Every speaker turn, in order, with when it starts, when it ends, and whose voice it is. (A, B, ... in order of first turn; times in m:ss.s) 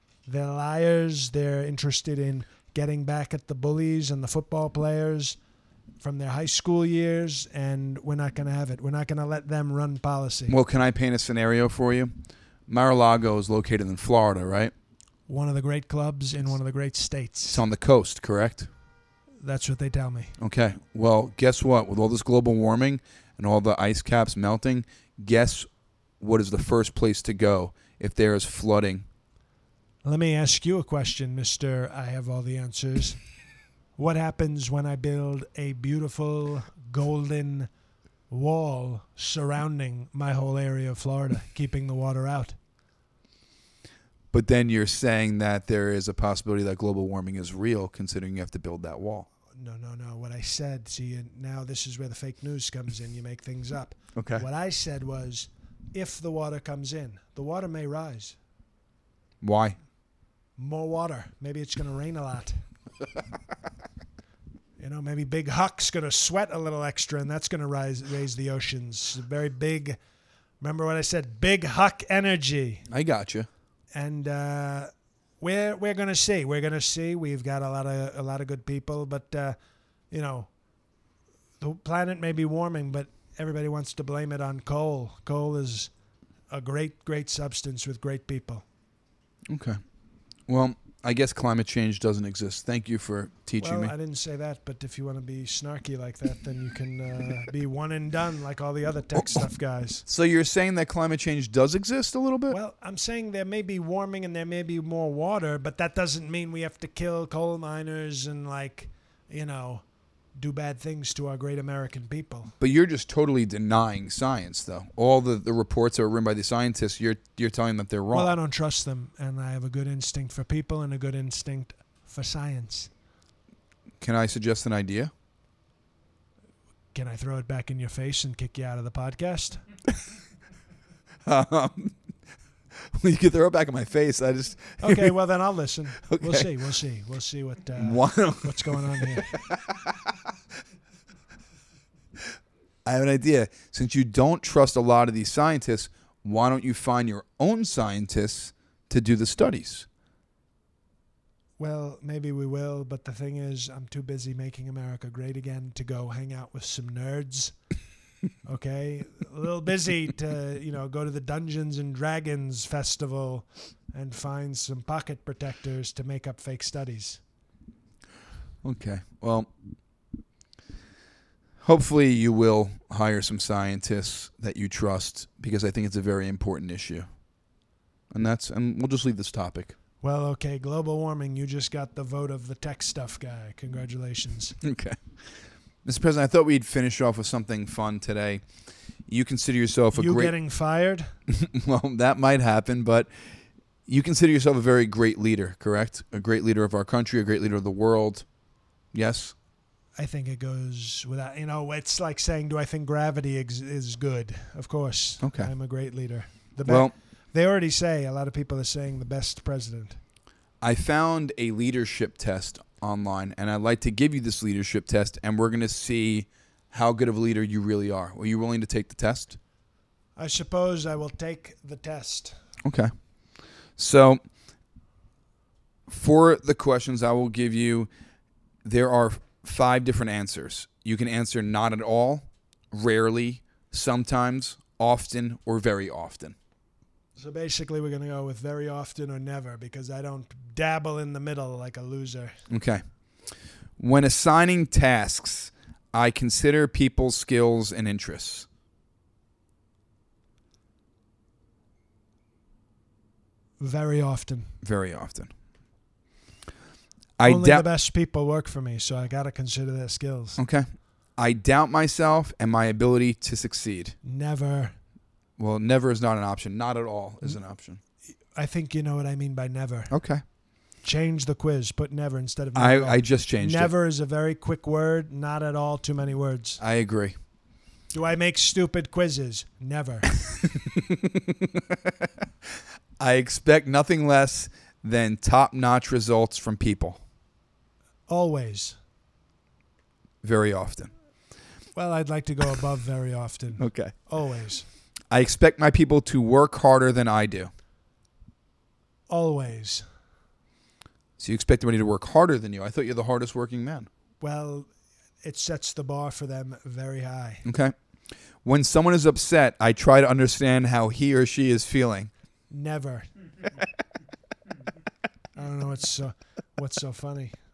0:00.2-0:05.4 A
0:06.0-0:10.6 A
0:10.5-0:12.1 B
0:12.7-0:14.7 B
0:15.3-0:17.6 A
0:17.5-0:18.7 B
0:19.4-0:20.3 A
0:20.4-0:25.7 B
0:26.2-0:29.0 B
0:30.0-0:33.2 A
0:34.0-0:37.7 A
0:38.3-0:42.6 A
0:44.3-0:49.3 B
0:49.5-0:58.4 A
0:54.2-0:54.4 B
0:59.4-0:59.8 B
1:00.6-1:02.6 A
1:04.8-1:10.0 A
1:10.6-1:12.8 A
1:12.9-1:13.5 B
1:13.9-1:19.6 A
1:20.1-1:20.5 A
1:21.6-1:25.9 A
1:26.5-1:28.6 A
1:29.5-1:29.8 B
1:30.5-1:33.9 B
1:33.6-1:40.0 A
1:39.2-1:39.4 B
1:40.0-1:42.6 B
1:42.5-1:49.8 A
1:50.4-1:52.5 A
1:52.6-1:58.3 B
1:58.1-2:02.9 A
2:04.0-2:05.1 B
2:06.9-2:09.6 A
2:11.2-2:12.0 B
2:12.9-2:15.2 B
2:14.8-2:19.3 A
2:16.0-2:16.5 B
2:17.8-2:19.9 B
2:22.8-2:29.9 B
2:31.6-2:37.5 A
2:38.4-2:47.2 A
2:48.6-2:49.5 B
2:51.6-2:57.1 B
2:58.1-2:59.8 B
3:00.0-3:04.6 A
3:04.6-3:05.0 B
3:05.8-3:08.4 B
3:09.1-3:10.3 B
3:09.9-3:11.1 A
3:11.3-3:13.1 B
3:13.9-3:18.2 B
3:18.9-3:19.3 B
3:20.0-3:30.0 A
3:25.2-3:25.5 B
3:26.6-3:26.9 B
3:30.6-3:39.4 B
3:40.2-3:42.3 A
3:42.6-3:42.9 B
3:43.8-3:44.2 B
3:45.9-3:47.9 B
3:48.6-3:56.4 B
3:57.2-4:02.4 A
4:02.5-4:02.8 B
4:03.8-4:08.5 B
4:13.6-4:14.5 A
4:14.6-4:15.3 B
4:17.2-4:17.6 B
4:17.2-4:20.4 A
4:20.4-4:20.6 B
4:21.2-4:24.0 B
4:24.0-4:24.7 A
4:25.4-4:27.8 B
4:28.3-4:29.9 A
4:29.9-4:30.2 B
4:30.8-4:36.6 A
4:32.5-4:33.7 B
4:36.6-4:37.1 B
4:37.9-4:40.1 A
4:40.4-4:42.1 B
4:43.0-4:47.0 B
4:48.1-4:48.8 A
4:50.2-4:50.9 B
4:51.8-4:54.6 A
4:53.6-4:53.9 B
4:55.1-4:57.5 B
4:59.1-4:59.8 A
5:01.2-5:03.9 B
5:04.2-5:04.7 A
5:05.2-5:07.4 A
5:07.4-5:07.7 B
5:08.4-5:12.1 B
5:12.5-5:13.1 A
5:15.4-5:17.4 A